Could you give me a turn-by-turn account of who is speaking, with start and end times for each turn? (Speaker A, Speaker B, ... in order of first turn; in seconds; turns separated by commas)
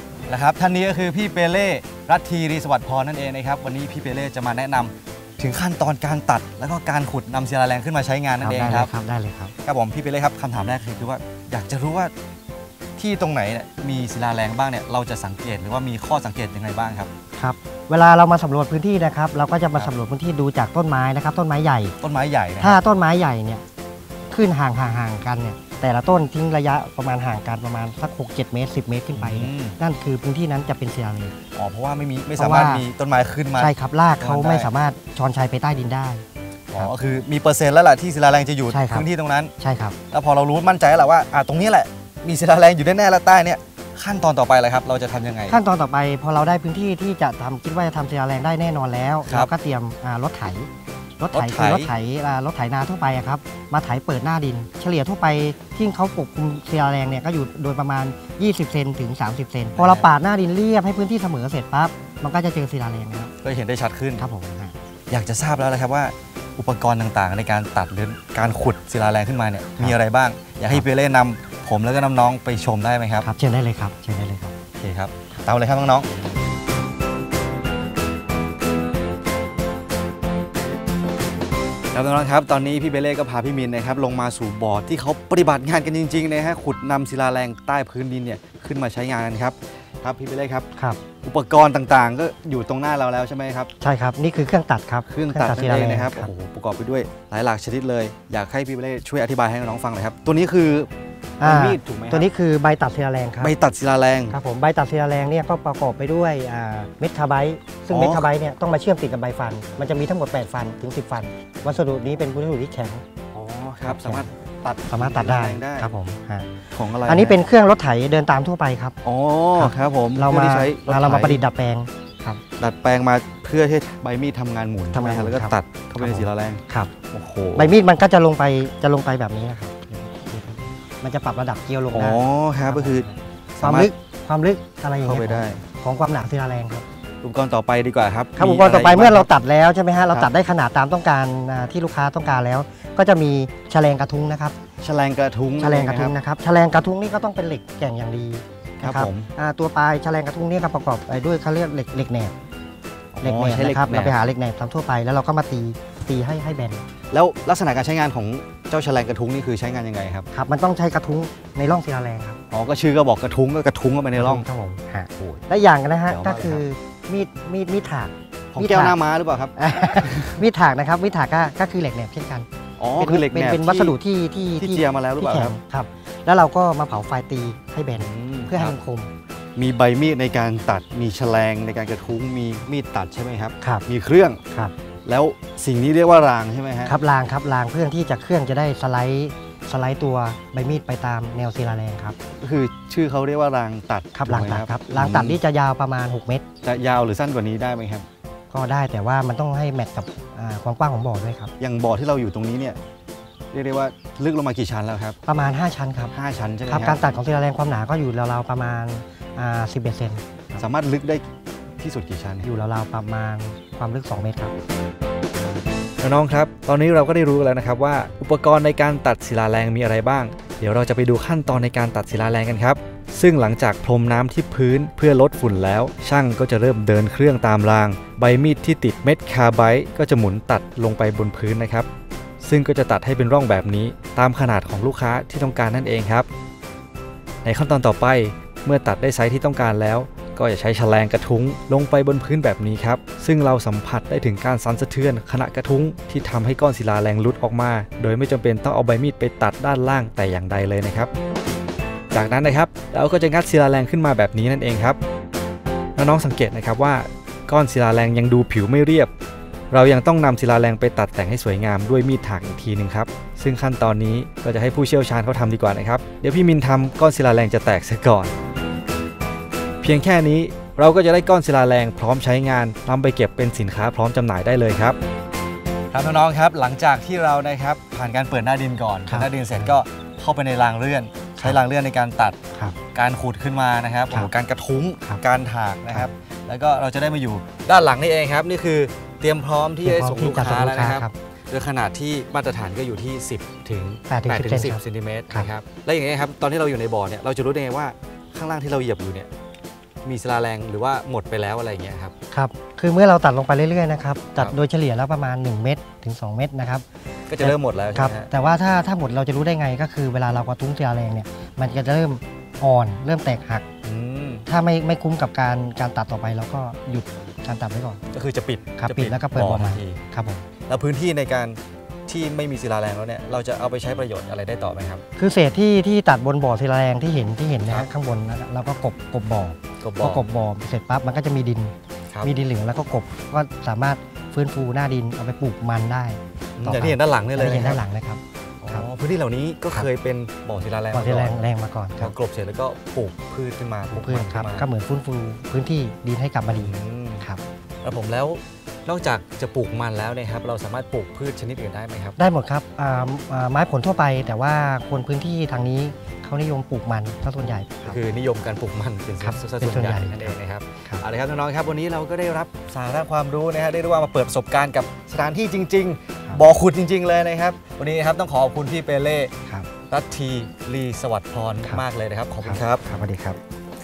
Speaker A: 0.3-8.9, Speaker B: 8.4-9.5, Speaker A: 9.7-12.1, Speaker A: 13.0-17.1, Speaker B: 17.4-22.0, Speaker A: 22.0-22.8, Speaker B: 22.6-23.6, Speaker B: 24.3-31.4, Speaker A: 29.2-29.8, Speaker A: 31.6-34.7, Speaker B: 32.4-32.9, Speaker B: 33.6-36.2, Speaker A: 36.7-39.5, Speaker B: 38.7-39.1, Speaker B: 39.6-40.0, Speaker A: 40.1-45.6, Speaker B: 45.5-63.3, Speaker A: 49.3-49.5, Speaker A: 51.3-51.9, Speaker A: 59.8-60.1, Speaker A: 63.4-64.2, Speaker B: 64.2-64.8, Speaker A: 65.1-73.3, Speaker B: 73.2-74.5, Speaker A: 74.8-76.1, Speaker A: 81.9-90.7, Speaker A: 91.2-93.7, Speaker B: 93.8-96.3, Speaker A: 95.1-100.9, Speaker B: 101.4-103.5, Speaker A: 101.4-102.3, Speaker A: 103.4-104.3, Speaker B: 104.3-113.0, Speaker A: 107.9-108.3, Speaker A: 113.3-115.9, Speaker B: 113.8-114.3, Speaker B: 114.9-116.5, Speaker A: 116.8-117.4, Speaker B: 117.0-119.0, Speaker A: 119.0-121.4, Speaker B: 119.6-122.4, Speaker A: 122.6-127.8, Speaker B: 124.9-126.9, Speaker B: 127.5-136.8, Speaker A: 131.9-133.1, Speaker A: 133.6-133.9, Speaker A: 135.0-135.6, Speaker A: 137.2-139.3, Speaker B: 138.4-144.6, Speaker A: 144.8-146.1, Speaker B: 145.6-152.3, Speaker A: 148.8-149.3, Speaker A: 153.1-154.2, Speaker B: 153.2-156.8, Speaker A: 157.1-160.3, Speaker B: 160.3-162.4, Speaker A: 162.5-164.4, Speaker B: 164.2-169.0, Speaker A: 165.2-165.4, Speaker A: 166.1-166.6, Speaker A: 168.5-170.4, Speaker B: 169.6-172.5, Speaker A: 172.8-173.9, Speaker B: 173.0-179.1, Speaker A: 174.6-175.5, Speaker A: 177.9-178.8, Speaker A: 179.6-184.4, Speaker A: 185.1-186.9, Speaker B: 186.8-192.2, Speaker A: 192.4-195.4, Speaker B: 194.1-196.4, Speaker A: 196.6-198.1, Speaker B: 198.5-201.5, Speaker A: 201.6-202.8, Speaker A: 203.5-205.2, Speaker B: 205.2-206.1, Speaker A: 206.1-207.0, Speaker B: 206.7-210.6, Speaker A: 210.6-211.2, Speaker A: 211.8-212.5, Speaker B: 212.4-214.5, Speaker A: 216.0-231.9, Speaker A: 232.4-236.3, Speaker A: 237.4-251.1, Speaker A: 252.1-255.0, Speaker A: 256.0-259.1, Speaker A: 259.7-268.3, Speaker A: 269.8-275.0, Speaker A: 275.9-282.4, Speaker B: 279.1-279.7, Speaker A: 282.9-299.3, Speaker B: 289.8-291.1, Speaker B: 294.1-295.5, Speaker A: 300.0-302.1, Speaker B: 302.3-306.8, Speaker A: 307.3-308.3, Speaker B: 307.4-313.6, Speaker A: 313.8-314.4, Speaker B: 314.5-318.0, Speaker A: 318.1-320.0, Speaker B: 318.8-320.4, Speaker A: 320.7-325.0, Speaker B: 325.2-338.8, Speaker A: 329.8-330.2, Speaker A: 336.6-337.8, Speaker A: 338.6-341.4, Speaker B: 340.9-342.1, Speaker A: 342.0-344.6, Speaker B: 343.9-347.4, Speaker A: 346.5-347.2, Speaker A: 347.8-352.2, Speaker B: 352.2-358.0, Speaker A: 357.8-369.3, Speaker B: 359.2-360.3, Speaker A: 369.9-372.9, Speaker B: 372.4-373.4